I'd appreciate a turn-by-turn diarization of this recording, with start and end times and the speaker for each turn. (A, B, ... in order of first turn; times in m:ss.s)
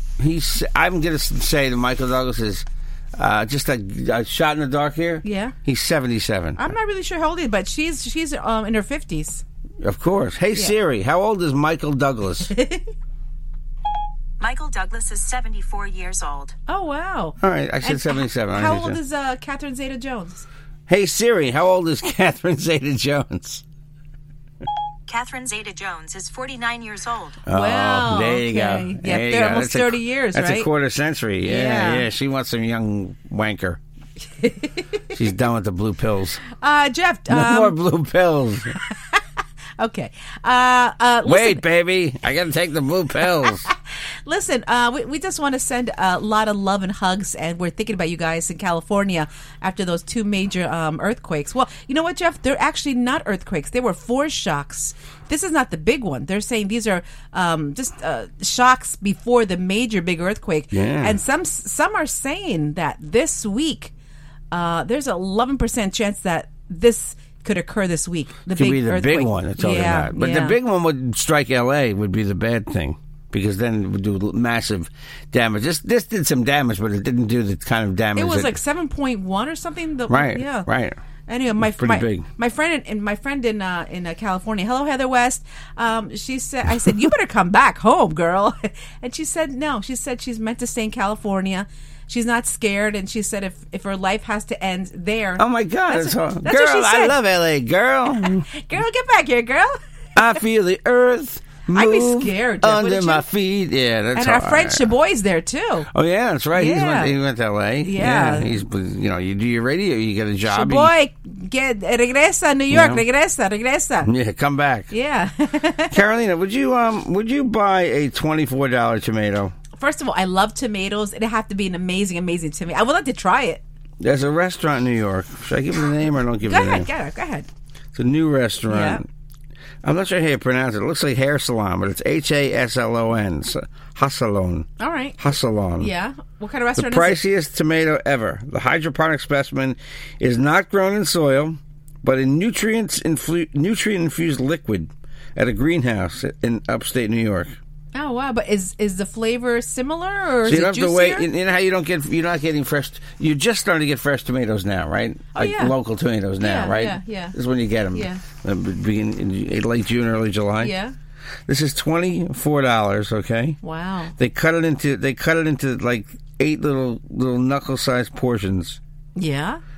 0:00.2-0:06.7 A
0:05.2-0:05.6 B
0:06.6-0:09.4 B
0:09.8-0:12.5 A
0:12.5-0:12.9 B
0:14.5-0:16.5 C
0:16.7-0:20.5 B
0:17.4-0:19.0 A
0:20.9-0:23.6 A
0:25.2-0:27.2 C
0:27.5-0:33.8 A
0:27.5-0:30.7 B
0:31.4-0:32.1 B
0:34.4-0:34.9 B
0:35.1-0:36.4 A
0:36.6-0:37.8 B
0:37.3-0:38.8 A
0:38.9-0:39.2 B
0:39.8-0:41.6 B
0:41.2-0:43.7 A
0:43.4-0:43.7 B
0:44.3-1:03.9 B
1:00.7-1:01.2 A
1:04.5-1:10.6 B
1:08.5-1:18.6 A
1:18.2-1:20.7 B
1:20.1-1:21.0 A
1:21.3-1:37.2 B
1:21.6-1:22.3 A
1:35.4-1:38.5 A
1:38.1-1:39.8 B
1:40.2-1:44.9 A
1:41.7-1:43.3 B
1:44.2-1:45.9 B
1:45.9-1:50.9 A
1:46.5-1:47.2 B
1:47.8-1:48.6 B
1:50.5-1:54.1 B
1:52.7-1:53.0 A
1:54.0-1:54.9 A
1:54.9-1:56.0 B
1:55.9-1:59.6 A
1:59.8-2:03.6 B
2:04.0-2:06.9 A
2:06.4-2:07.5 B
2:08.0-2:09.1 A
2:08.7-2:09.0 B
2:09.8-2:15.9 A
2:14.8-2:15.2 B
2:15.8-2:17.2 B
2:16.8-2:27.6 A
2:27.9-2:31.3 B
2:30.4-2:40.8 A
2:35.3-2:35.8 B
2:36.4-2:37.4 B
2:37.9-2:38.2 B
2:40.6-2:40.9 B
2:41.5-2:43.6 A
2:43.6-2:44.2 B
2:44.2-2:48.8 A
2:49.2-2:49.6 B